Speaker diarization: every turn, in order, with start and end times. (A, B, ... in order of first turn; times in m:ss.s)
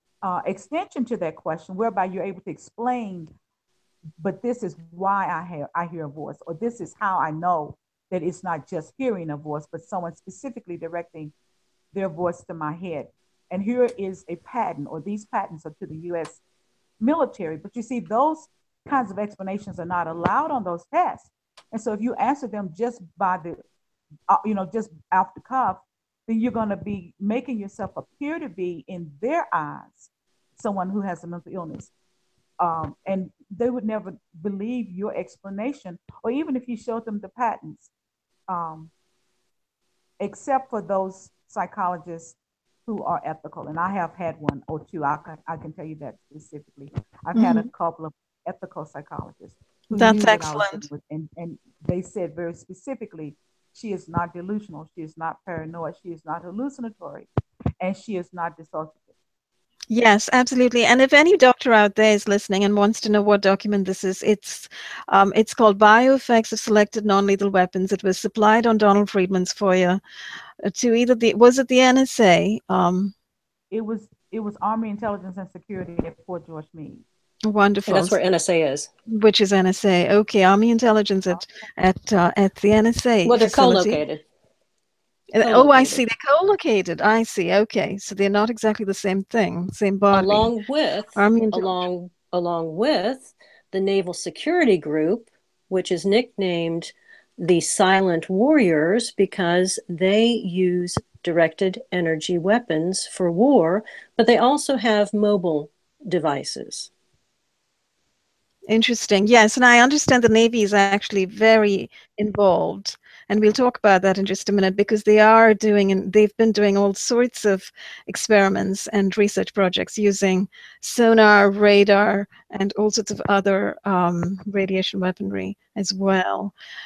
0:00.2-0:03.3 A
0:04.2-0:11.3 A
0:11.9-0:16.4 A
0:17.0-0:23.6 A
0:24.3-0:31.9 A
0:32.6-0:37.9 A
0:38.5-0:38.9 A
0:40.2-0:57.3 A
0:47.3-0:47.7 B
0:49.9-0:50.9 B
0:57.8-0:59.0 A
0:59.9-1:10.0 B
1:10.6-1:13.1 B
1:13.7-1:17.0 A
1:17.5-1:18.2 B
1:17.9-1:18.9 C
1:19.1-1:24.0 B
1:23.2-1:24.2 C
1:25.3-1:30.5 B
1:25.4-1:26.0 C
1:30.1-1:46.9 C
1:31.1-1:31.8 B
1:48.7-2:06.5 B